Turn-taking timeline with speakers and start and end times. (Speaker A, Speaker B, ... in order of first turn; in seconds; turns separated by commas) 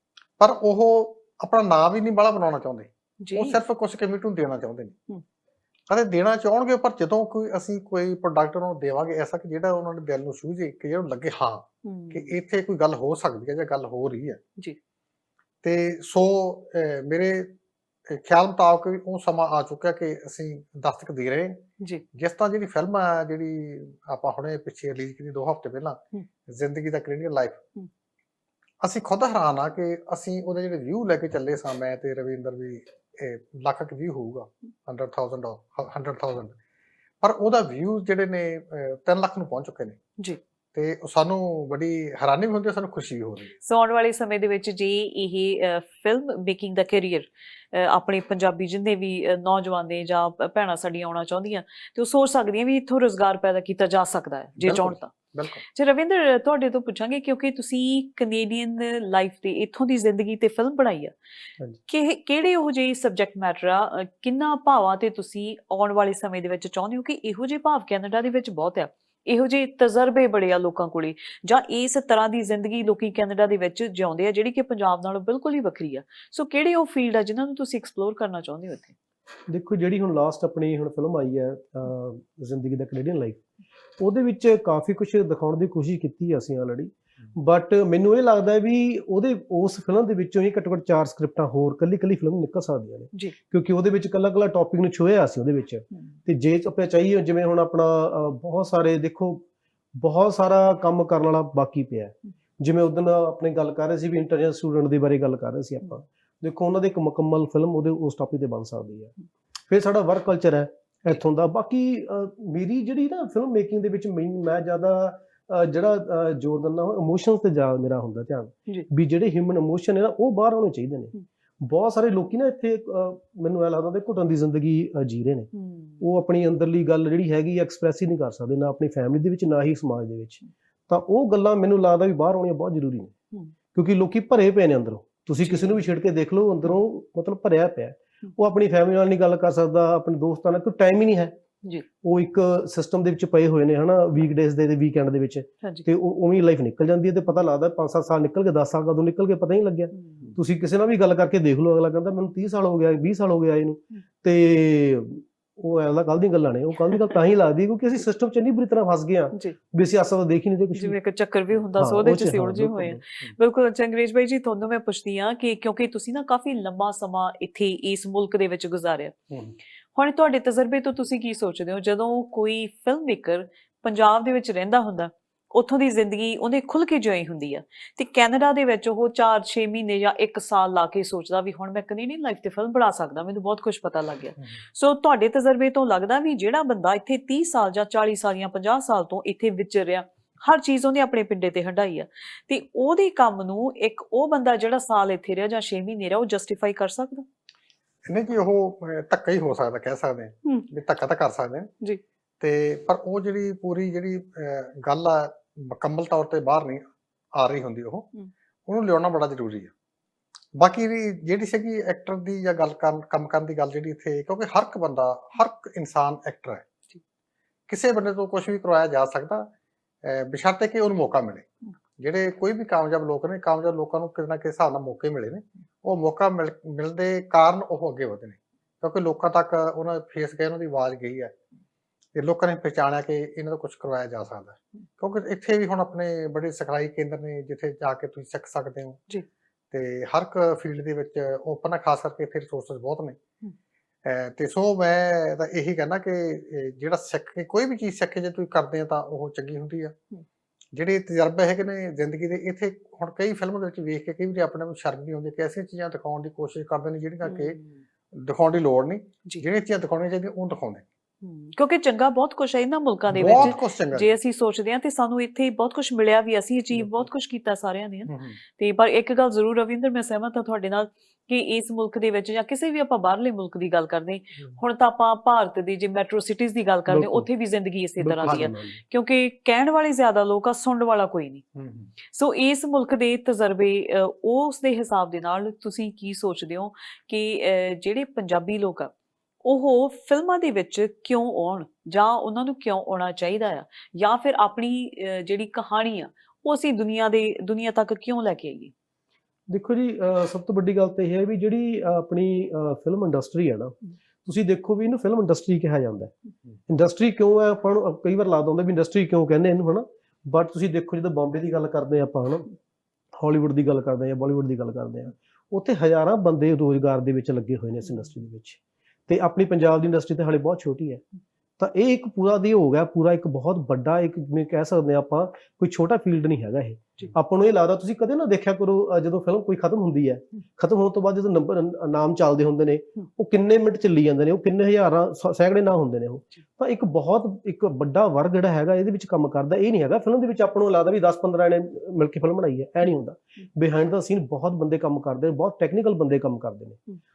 Speaker A: 0.4-5.0, Speaker B: 3.2-3.6, Speaker A: 5.9-14.4, Speaker B: 11.8-12.4, Speaker A: 15.6-17.5, Speaker A: 18.1-27.6, Speaker A: 28.8-36.6, Speaker A: 37.2-40.0, Speaker A: 40.7-43.5, Speaker B: 43.6-55.1, Speaker A: 54.6-55.6, Speaker B: 55.6-61.1, Speaker B: 61.9-78.9, Speaker C: 79.5-83.4, Speaker C: 84.0-99.4, Speaker C: 100.0-109.1, Speaker C: 109.7-133.1, Speaker B: 125.5-126.0, Speaker C: 133.7-141.3, Speaker B: 135.4-135.8, Speaker C: 142.0-161.0, Speaker B: 149.9-150.2, Speaker B: 160.7-169.2, Speaker C: 161.7-163.0, Speaker B: 169.9-197.2, Speaker A: 198.1-201.7, Speaker A: 202.4-208.1, Speaker A: 208.7-209.7, Speaker A: 210.6-216.6, Speaker A: 217.7-219.5, Speaker A: 220.0-221.5, Speaker A: 222.0-231.3, Speaker A: 232.1-239.0, Speaker A: 239.7-243.2, Speaker A: 244.0-249.9, Speaker A: 250.7-257.6, Speaker B: 257.2-257.7, Speaker A: 258.1-260.9, Speaker B: 261.2-281.4, Speaker A: 263.1-264.1, Speaker A: 268.1-268.4, Speaker C: 276.9-277.3, Speaker C: 278.0-278.8, Speaker A: 281.5-281.9, Speaker B: 282.1-288.9, Speaker B: 289.4-298.7, Speaker C: 299.5-306.1, Speaker C: 306.7-312.5, Speaker C: 313.2-321.0, Speaker C: 321.6-346.8